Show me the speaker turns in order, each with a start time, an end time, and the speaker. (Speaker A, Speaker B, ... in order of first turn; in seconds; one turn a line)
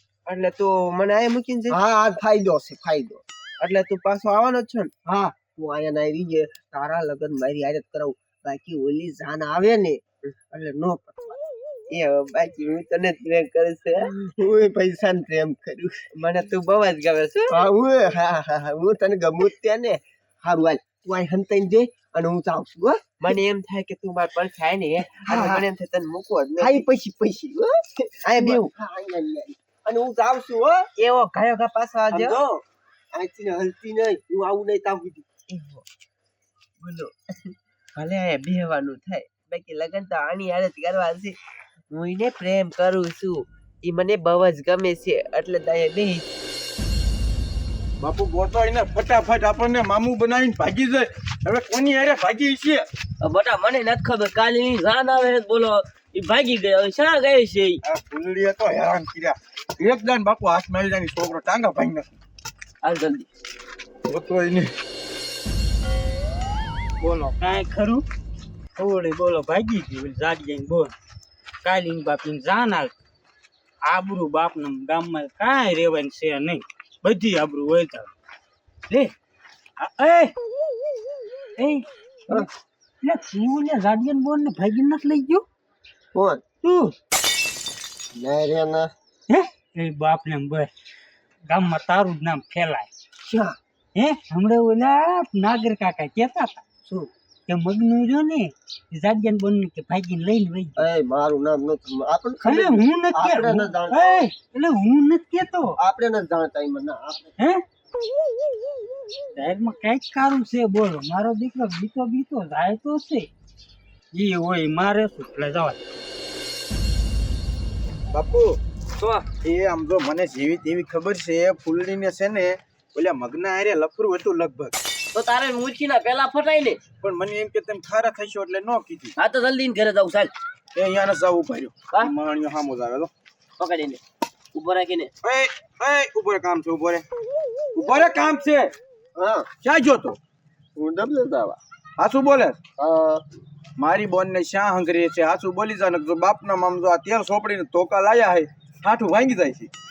Speaker A: 0.2-1.8
Speaker B: 1.7-3.2
Speaker A: 3.6-4.9
Speaker B: 5.1-11.3
Speaker A: 11.9-14.1
Speaker B: 14.1-16.0
Speaker A: 16.1-17.6
Speaker B: 17.5-23.1
Speaker A: 23.2-26.8
Speaker B: 25.2-25.6
Speaker B: 26.6-30.9
Speaker A: 28.2-28.7
Speaker A: 31.0-32.4
Speaker B: 32.1-32.6
Speaker B: 33.1-35.2
Speaker A: 35.5-35.8
Speaker A: 36.8-41.4
Speaker A: 41.9-46.3
Speaker C: 48.0-52.9
Speaker D: 53.2-57.8
Speaker C: 57.8-62.1
Speaker D: 62.8-63.3
Speaker C: 64.0-64.7
Speaker E: 67.0-68.0
Speaker E: 68.8-70.9
Speaker E: 71.6-72.9
Speaker E: 73.8-78.1
Speaker E: 79.8-80.3
Speaker E: 81.6-82.5
Speaker E: 83.0-85.4
Speaker B: 86.1-86.5
Speaker E: 86.6-86.9
Speaker B: 88.1-88.9
Speaker E: 89.3-90.7
Speaker E: 91.5-92.9
Speaker B: 93.2-93.6
Speaker E: 93.9-96.6
Speaker E: 97.5-100.8
Speaker B: 100.8-104.2
Speaker E: 102.4-105.8
Speaker B: 105.8-107.3
Speaker E: 109.3-113.3
Speaker E: 114.1-115.8
Speaker C: 118.1-118.6
Speaker D: 119.0-119.2
Speaker C: 119.4-124.7
Speaker D: 125.1-126.8
Speaker C: 127.0-129.1
Speaker D: 129.2-130.3
Speaker C: 130.7-133.1
Speaker D: 133.6-134.0
Speaker D: 134.5-135.1
Speaker C: 135.2-137.0
Speaker C: 137.7-138.7
Speaker B: 139.2-139.5
Speaker C: 139.6-140.2
Speaker B: 140.8-141.6
Speaker C: 142.0-142.6
Speaker B: 142.8-143.2
Speaker C: 143.8-149.7